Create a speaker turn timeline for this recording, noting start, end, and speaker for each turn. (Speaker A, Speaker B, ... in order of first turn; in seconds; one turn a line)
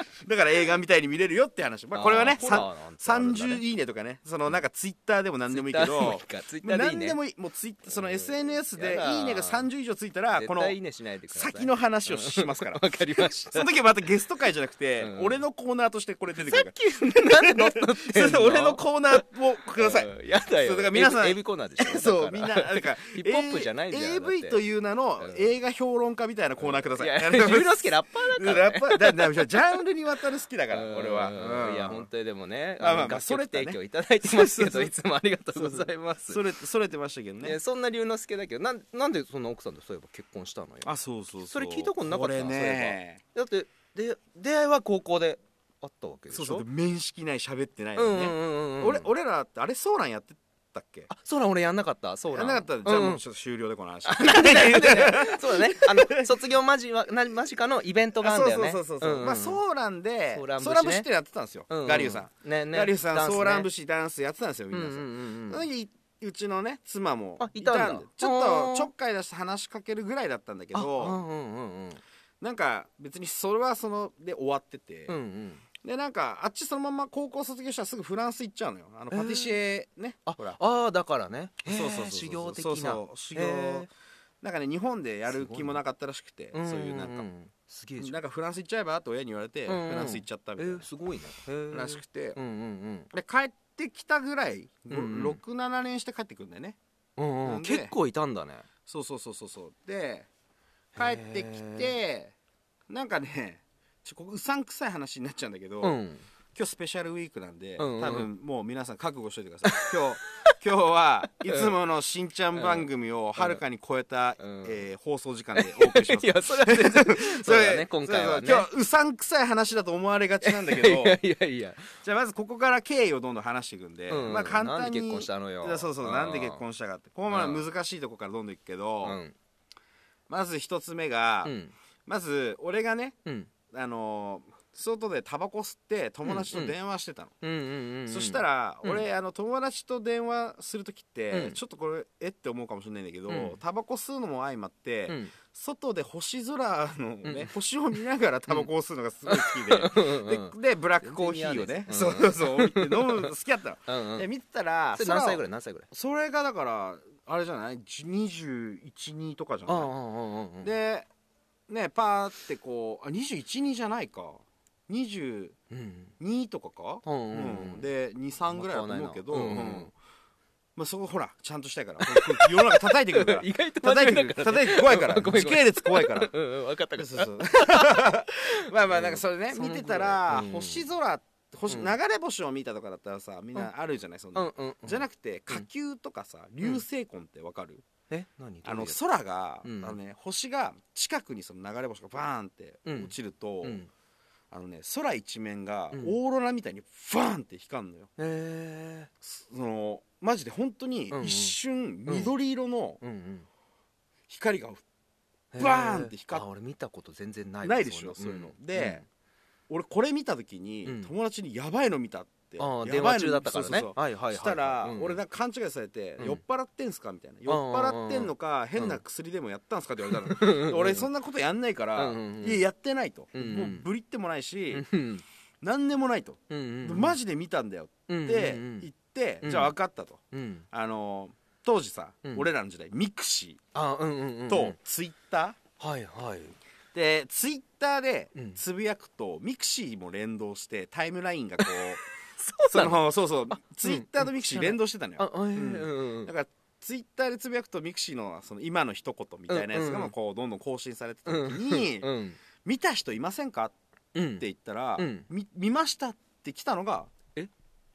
Speaker A: 0.2-10.8
Speaker B: 1.9-3.6
Speaker B: 5.5-7.2
Speaker B: 7.9-9.7
Speaker B: 10.3-13.7
Speaker A: 11.3-32.1
Speaker B: 15.0-15.4
Speaker B: 16.3-19.2
Speaker B: 19.8-24.6
Speaker B: 25.2-25.5
Speaker B: 26.6-29.6
Speaker B: 30.7-36.4
Speaker A: 32.8-34.9
Speaker A: 35.5-37.6
Speaker B: 37.4-46.6
Speaker A: 40.8-43.2
Speaker A: 46.3-51.1
Speaker B: 48.0-49.1
Speaker B: 51.1-53.2
Speaker A: 52.3-56.4
Speaker B: 54.0-59.6
Speaker A: 58.2-71.2
Speaker B: 60.3-61.1
Speaker B: 61.7-63.7
Speaker B: 64.7-65.6
Speaker B: 67.4-68.9
Speaker B: 70.7-72.0
Speaker A: 72.4-75.2
Speaker B: 75.1-75.6
Speaker A: 75.8-80.6
Speaker B: 79.1-79.5
Speaker B: 80.2-83.9
Speaker A: 81.6-83.9
Speaker A: 84.4-87.3
Speaker B: 85.3-85.8
Speaker B: 86.5-88.2
Speaker A: 88.0-90.9
Speaker B: 89.7-93.1
Speaker A: 91.7-92.4
Speaker A: 93.1-96.8
Speaker B: 94.9-95.4
Speaker B: 97.2-98.7
Speaker A: 97.4-97.9
Speaker A: 98.9-100.3
Speaker B: 101.0-101.9
Speaker A: 101.0-102.3
Speaker A: 102.9-106.0
Speaker B: 105.8-106.2
Speaker A: 106.5-121.2
Speaker B: 107.8-108.3
Speaker B: 109.7-110.5
Speaker B: 111.5-111.7
Speaker B: 112.5-113.6
Speaker B: 114.4-114.8
Speaker B: 115.5-118.7
Speaker B: 120.4-121.9
Speaker A: 122.0-129.2
Speaker B: 124.1-126.6
Speaker B: 127.3-127.6
Speaker B: 129.0-129.3
Speaker A: 130.3-131.5
Speaker B: 131.4-131.7
Speaker A: 132.1-133.2
Speaker A: 133.7-137.3
Speaker B: 136.2-136.7
Speaker B: 137.4-139.0
Speaker A: 138.1-159.9
Speaker B: 141.3-141.6
Speaker B: 143.3-143.6
Speaker B: 145.1-145.3
Speaker B: 147.2-147.5
Speaker B: 149.3-153.3
Speaker B: 153.9-154.3
Speaker B: 154.9-155.9
Speaker B: 159.7-160.7
Speaker A: 160.6-161.1
Speaker A: 161.7-165.6
Speaker B: 165.7-166.1
Speaker A: 166.2-169.9
Speaker B: 167.0-167.9
Speaker B: 168.5-169.9
Speaker A: 170.8-176.3
Speaker B: 172.0-180.9
Speaker A: 177.0-187.8
Speaker B: 184.3-185.7
Speaker B: 188.1-189.0
Speaker A: 188.6-193.8
Speaker B: 189.6-190.0
Speaker B: 192.9-193.9
Speaker A: 194.5-198.1
Speaker B: 198.2-199.1
Speaker A: 199.2-203.0
Speaker B: 201.1-202.3
Speaker B: 203.0-203.5
Speaker A: 204.3-204.8
Speaker B: 205.5-209.0
Speaker A: 205.6-206.4
Speaker A: 207.6-209.0
Speaker A: 209.7-224.8
Speaker B: 210.9-211.1
Speaker B: 212.6-215.2
Speaker B: 217.5-219.0
Speaker B: 220.1-221.1
Speaker B: 221.9-222.6
Speaker B: 223.3-223.9
Speaker B: 224.7-225.2
Speaker A: 225.6-233.6
Speaker B: 226.5-227.2
Speaker B: 228.1-228.9
Speaker B: 229.4-229.7
Speaker B: 230.3-230.7
Speaker B: 233.7-234.8
Speaker A: 234.5-235.6
Speaker B: 235.8-236.6
Speaker A: 236.9-242.0
Speaker B: 241.6-246.3
Speaker A: 242.7-252.1
Speaker B: 249.5-250.1
Speaker B: 251.3-252.4
Speaker A: 252.6-253.7
Speaker B: 254.1-254.4
Speaker A: 254.4-257.1
Speaker B: 255.0-255.3